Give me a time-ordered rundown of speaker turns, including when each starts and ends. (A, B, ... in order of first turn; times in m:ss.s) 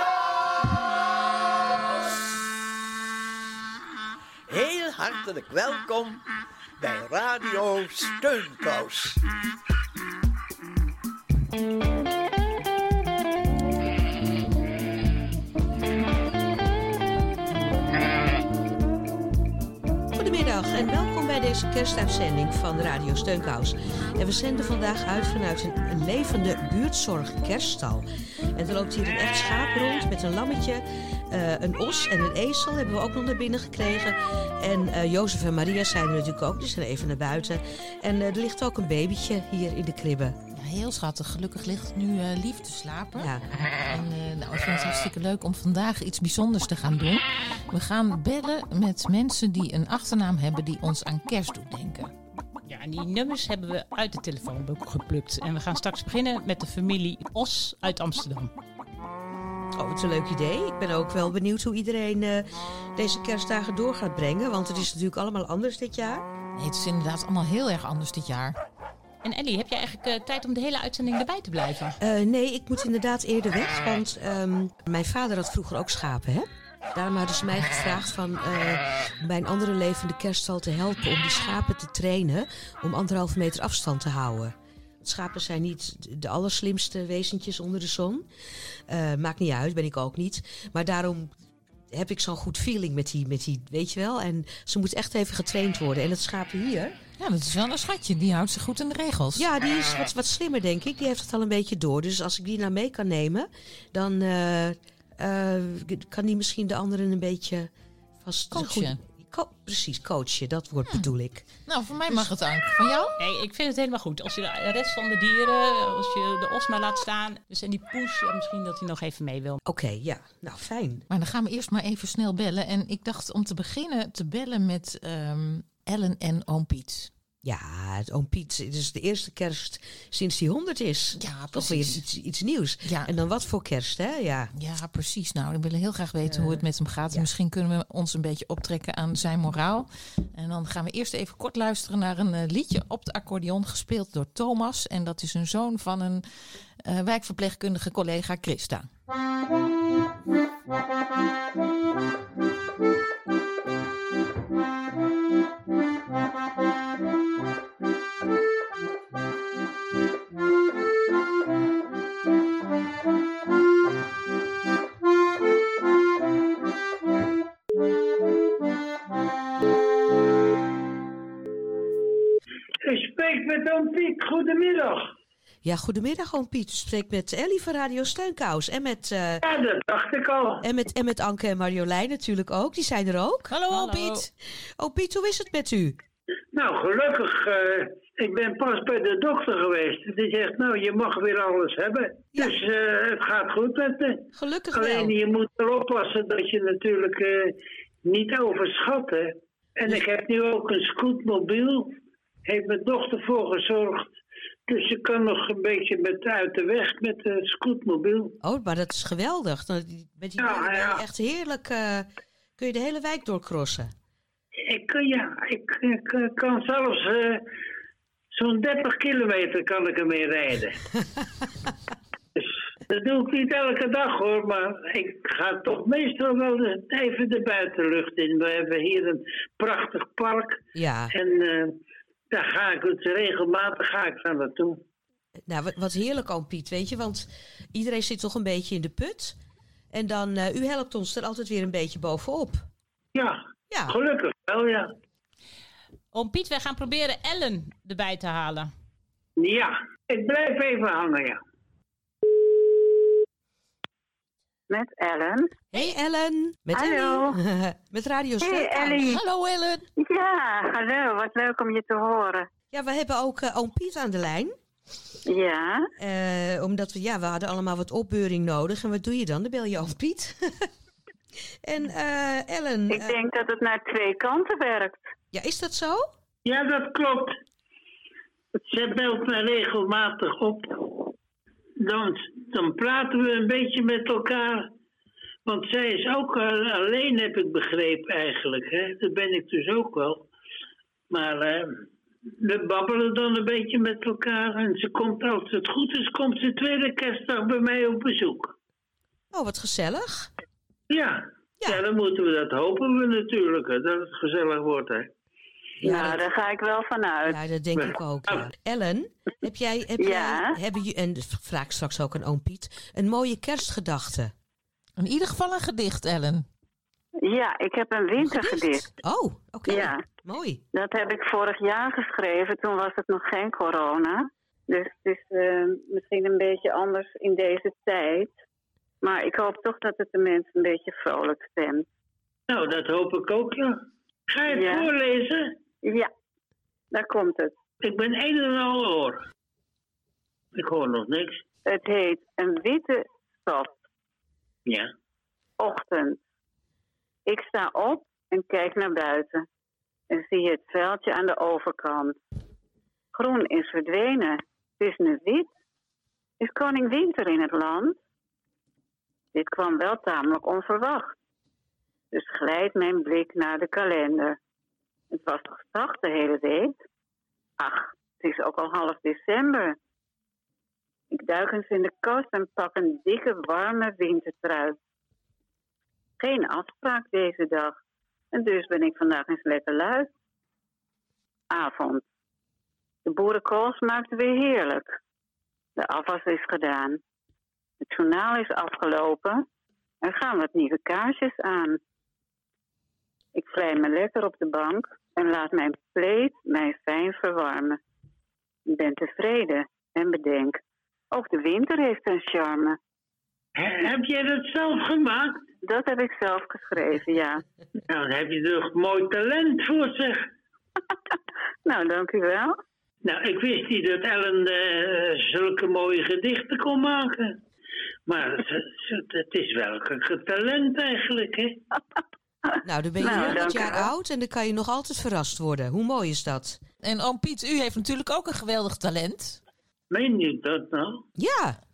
0:04.5-0:06.2 A
0:06.8-0:09.2 A
0:20.1-0:40.4 B
0:40.5-0:43.3 C
0:43.2-0:43.4 B
0:43.9-0:52.1 C
0:52.7-0:58.5 D
0:59.8-1:06.3 B
1:06.6-1:08.6 C
1:09.2-1:12.0 D
1:12.0-1:28.3 B
1:28.9-1:31.3 B
1:31.9-1:37.0 B
1:37.2-1:39.5 C
1:39.4-1:47.7 B
1:48.2-1:51.5 B
1:48.5-1:49.0 C
1:50.9-1:53.2 C
1:53.2-1:59.6 D
1:59.7-2:01.0 B
2:01.1-2:07.1 C
2:07.4-2:14.5 B
2:11.2-2:12.0 C
2:12.8-2:13.1 C
2:14.6-2:26.2 C
2:16.3-2:17.3 B
2:26.8-2:28.9 C
2:52.9-2:55.1 E
2:55.6-2:59.4 B
2:59.4-3:00.6 E
3:00.6-3:04.1 B
3:03.5-3:04.3 C
3:03.7-3:04.3 D
3:04.8-3:06.0 B
3:06.5-3:28.4 E
3:12.4-3:12.6 B
3:14.4-3:15.2 B
3:28.4-3:33.9 B
3:30.4-3:31.0 E
3:34.7-3:37.4 E
3:38.3-3:40.8 E
3:42.4-3:50.6 E
3:50.8-3:51.1 B
3:51.1-3:51.8 E
3:52.3-3:54.8 E
3:55.5-3:59.4 B
3:59.9-4:02.6 B
4:03.2-4:04.9 E
4:03.7-4:04.0 B
4:06.1-4:08.7 D
4:09.4-4:11.4 E
4:14.7-4:15.6 F
4:15.7-4:19.2 B
4:16.7-4:17.4 F
4:18.4-4:19.2 F
4:19.1-4:19.8 C
4:20.0-4:22.5 F
4:22.7-4:24.6 B
4:25.3-4:25.9 F
4:26.0-4:30.7 B
4:31.6-4:33.2 B
4:32.9-4:35.1 F
4:35.3-4:36.1 B
4:36.4-4:37.4 E
4:38.7-4:41.1 E
4:41.8-4:44.7 E
4:45.5-4:50.3 E
4:51.1-4:51.9 E
4:52.4-4:58.5 E
4:59.3-5:00.3 B
5:00.9-5:05.1 E
5:05.8-5:06.2 B
5:05.8-5:07.4 F
5:07.3-5:14.3 B
5:07.8-5:08.4 E
5:10.0-5:10.6 F
5:15.0-5:16.5 C
5:17.2-5:18.9 F
5:18.2-5:20.6 B
5:19.7-5:20.0 F
5:20.7-5:28.3 F
5:29.0-5:31.9 F
5:32.5-5:35.5 E
5:34.5-5:34.9 F
5:35.8-5:36.1 F
5:36.9-5:37.6 F
5:37.8-5:39.2 E
5:40.5-5:41.4 E
5:41.7-5:43.7 F
5:45.6-5:46.2 F
5:47.3-5:49.5 F
5:50.1-5:52.2 F
5:53.1-5:55.5 F
5:56.4-5:58.0 F
5:59.3-6:01.2 F
6:02.1-6:04.4 F
6:05.1-6:06.8 F
6:07.6-6:09.8 F
6:11.1-6:14.8 F
6:16.2-6:17.8 F
6:18.3-6:20.1 F
6:21.5-6:22.0 F
6:23.1-6:25.0 F
6:25.8-6:27.0 F
6:27.8-6:29.4 F
6:30.0-6:31.8 F
6:33.3-6:37.8 F
6:38.7-6:40.6 F
6:41.1-6:42.8 F
6:43.6-6:45.4 E
6:45.6-6:47.4 F
6:47.9-6:50.3 E
6:51.7-6:52.6 F
6:53.0-6:57.4 E
6:58.1-7:01.6 E
7:02.5-7:03.9 F
7:02.6-7:06.6 B
7:06.8-7:09.4 C
7:09.9-7:11.0 E
7:11.2-7:11.6 B